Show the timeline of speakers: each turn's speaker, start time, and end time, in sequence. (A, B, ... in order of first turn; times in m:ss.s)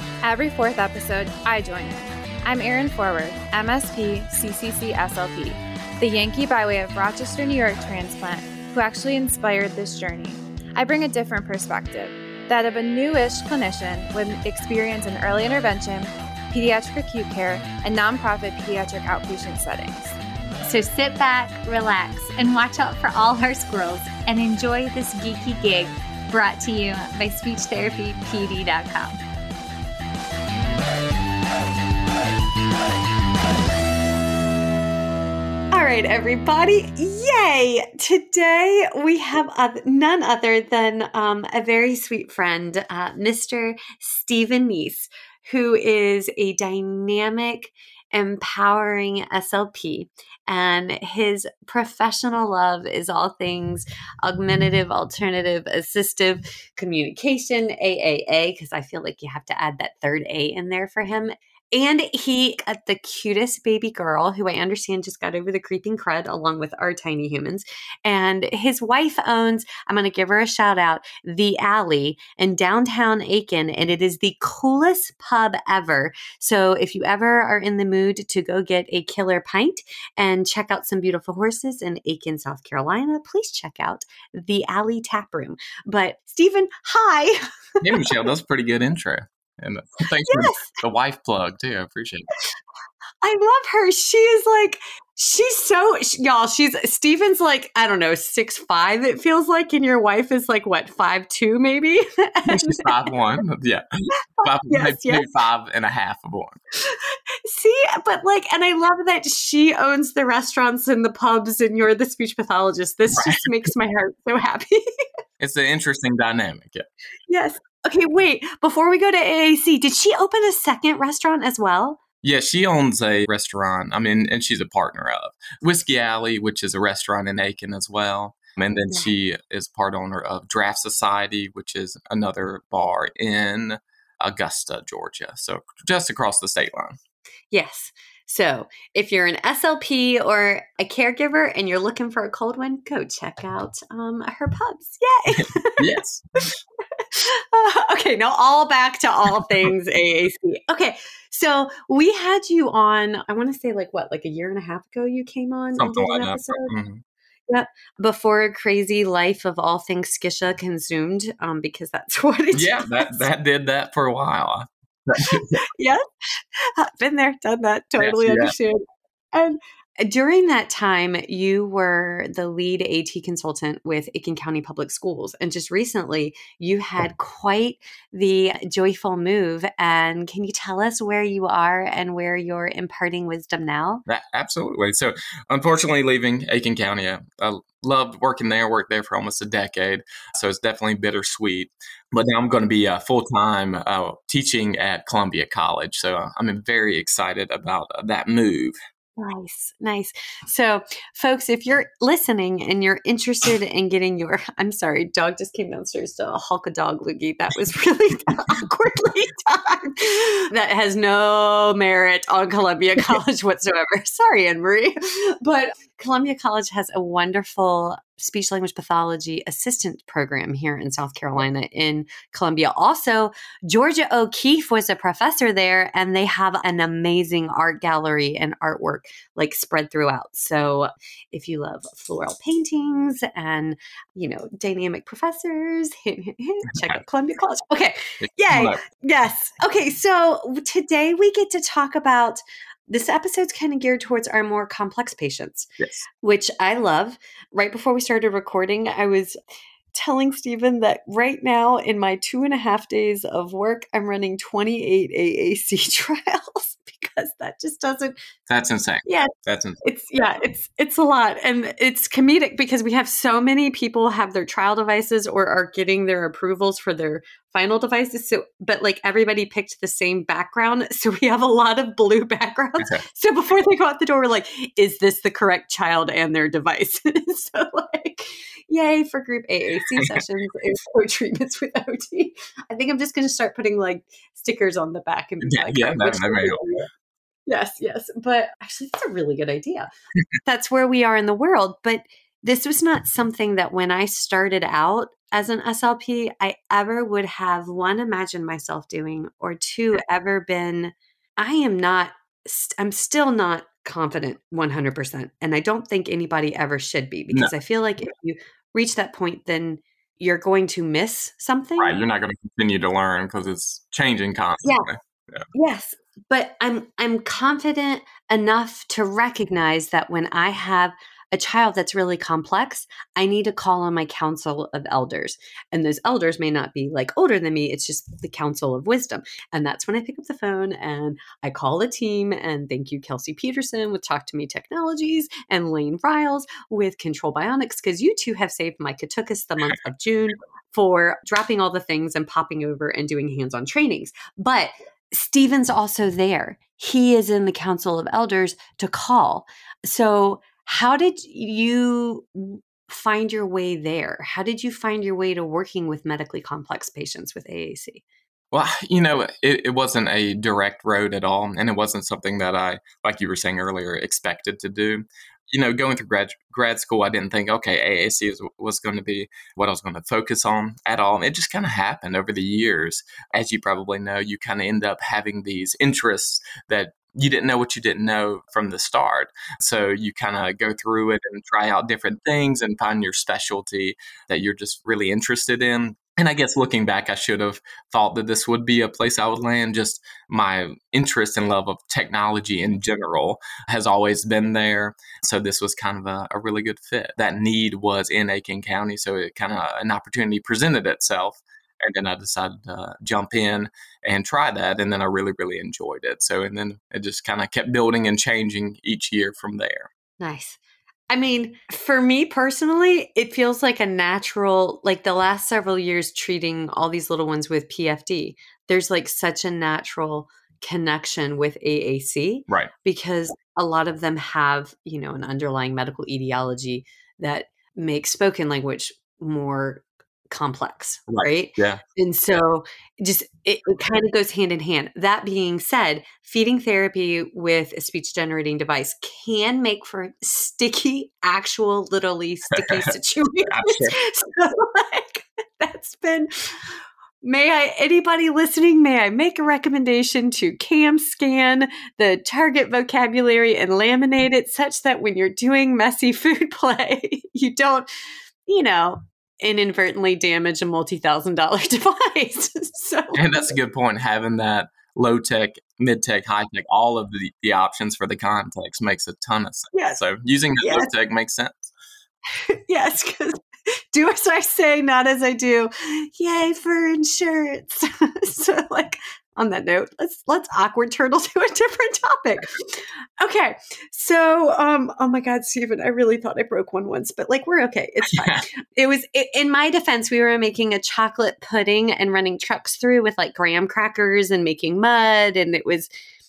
0:00.2-0:20.2 A
0:20.6-0:29.2 B
0:35.7-1:28.1 C
1:27.8-1:32.3 D
1:30.2-1:30.8 C
1:33.2-1:42.9 C
1:42.5-1:43.8 D
1:44.4-1:45.2 C
1:44.4-1:46.6 D
1:46.8-1:54.8 C
1:53.1-1:53.7 D
1:55.4-1:56.8 D
1:57.3-2:02.0 C
2:02.2-2:17.0 D
2:17.5-2:25.9 C
2:25.4-2:26.2 D
2:26.4-2:36.7 C
2:35.8-2:37.0 D
2:37.5-2:43.2 C
2:42.5-2:45.6 D
2:45.2-2:46.0 C
2:46.6-2:48.8 C
2:48.0-2:48.5 D
2:49.3-3:04.0 C
3:04.1-3:18.8 D
3:19.2-4:05.7 C
3:58.2-3:58.8 D
4:06.2-4:09.4 C
4:09.9-4:18.2 C
4:18.5-4:19.8 D
4:19.0-4:46.9 C
4:40.0-4:40.2 D
4:45.4-4:46.6 D
4:47.5-4:49.9 C
4:50.4-5:12.0 C
5:11.8-5:15.4 D
5:15.5-5:58.0 C
5:58.5-6:49.9 D
6:50.2-6:50.6 C
6:51.1-7:37.9 C
7:11.1-7:11.8 D
7:22.5-7:22.9 D
7:23.5-7:23.9 D
7:38.5-7:43.5 C
7:43.1-7:51.7 D
7:49.7-7:50.0 C
7:50.6-7:50.9 C
7:52.3-7:53.4 C
7:53.9-8:15.9 C
8:08.1-8:08.4 D